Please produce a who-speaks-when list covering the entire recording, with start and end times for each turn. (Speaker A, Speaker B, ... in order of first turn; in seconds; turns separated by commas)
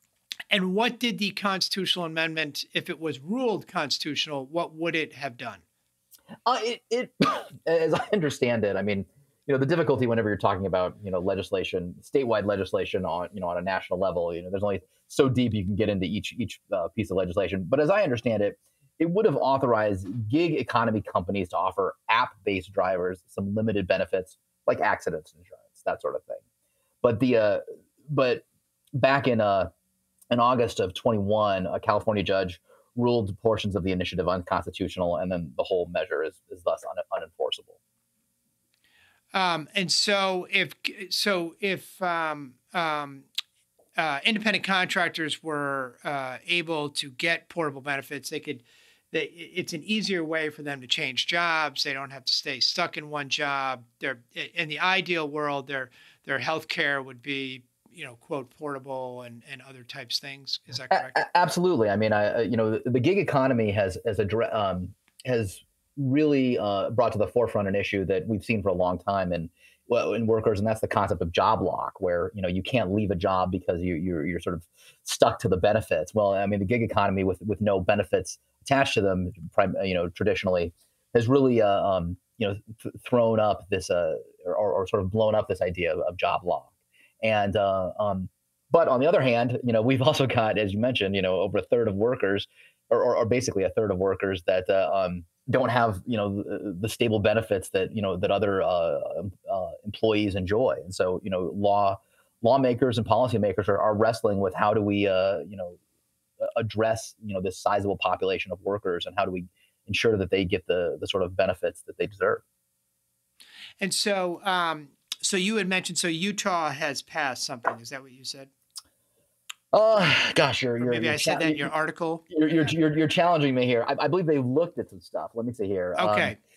Speaker A: 0.5-5.6, Speaker B: 6.5-26.4, Speaker B: 27.0-28.5, Speaker B: 29.0-29.7, Speaker B: 30.3-37.8, Speaker A: 39.3-43.2, Speaker A: 44.0-61.1, Speaker B: 60.9-86.7, Speaker B: 87.2-105.8, Speaker B: 106.4-112.4, Speaker A: 113.8-118.5, Speaker B: 119.7-121.7, Speaker A: 120.8-122.3, Speaker B: 122.3-126.3, Speaker A: 126.0-126.4